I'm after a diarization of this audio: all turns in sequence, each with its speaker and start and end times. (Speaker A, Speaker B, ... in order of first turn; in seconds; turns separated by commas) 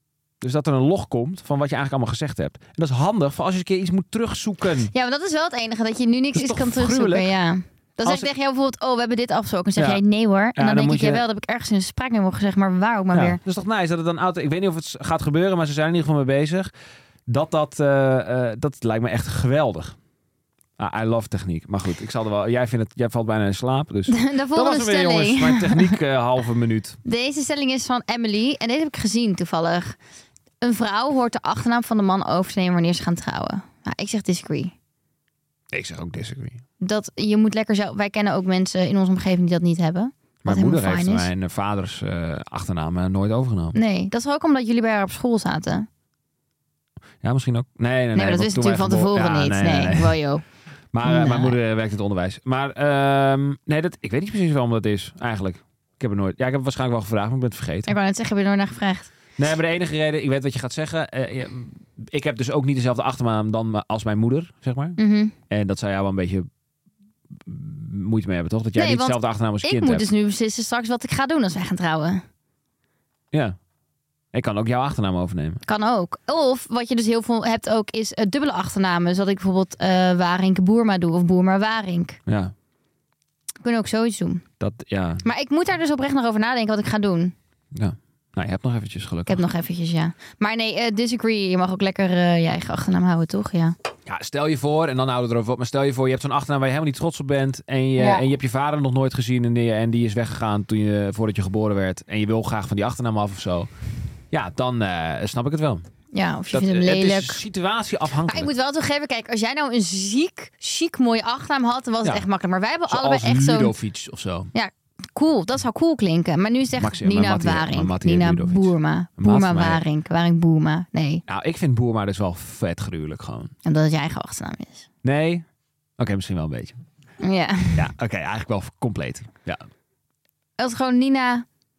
Speaker A: 0.4-4.9, Speaker B: 4.9-13.4, Speaker A: 6.3-7.3, Speaker A: 8.0-8.3, Speaker A: 9.8-10.0, Speaker A: 10.6-11.2, Speaker A: 13.1-16.7, Speaker A: 17.3-20.0, Speaker A: 20.8-27.0, Speaker B: 24.1-25.9, Speaker B: 27.1-30.0, Speaker B: 30.6-34.7, Speaker A: 35.7-36.6, Speaker B: 36.8-41.3, Speaker A: 40.5-43.8, Speaker B: 43.8-45.9, Speaker A: 47.2-50.2, Speaker B: 48.1-50.4, Speaker A: 50.9-57.9, Speaker B: 51.0-51.5, Speaker B: 57.9-59.1, Speaker A: 59.4-65.0, Speaker B: 65.0-65.3, Speaker A: 65.5-66.5, Speaker A: 67.4-70.1, Speaker B: 68.8-72.2, Speaker A: 74.3-75.6, Speaker B: 75.7-82.2, Speaker A: 82.3-82.5, Speaker B: 83.6-84.4, Speaker A: 84.6-85.2, Speaker B: 85.2-87.3, Speaker A: 87.7-89.4, Speaker B: 89.3-93.8, Speaker A: 94.1-103.7, Speaker B: 98.0-98.2, Speaker A: 104.3-105.8, Speaker B: 106.1-107.4, Speaker A: 106.5-108.5, Speaker B: 108.3-113.7, Speaker A: 112.9-114.5, Speaker B: 114.5-121.2, Speaker A: 116.8-119.8, Speaker A: 121.3-123.5, Speaker B: 123.7-124.9, Speaker A: 125.0-125.5, Speaker A: 126.0-126.8, Speaker B: 127.2-127.8, Speaker A: 127.8-129.6, Speaker B: 130.6-131.4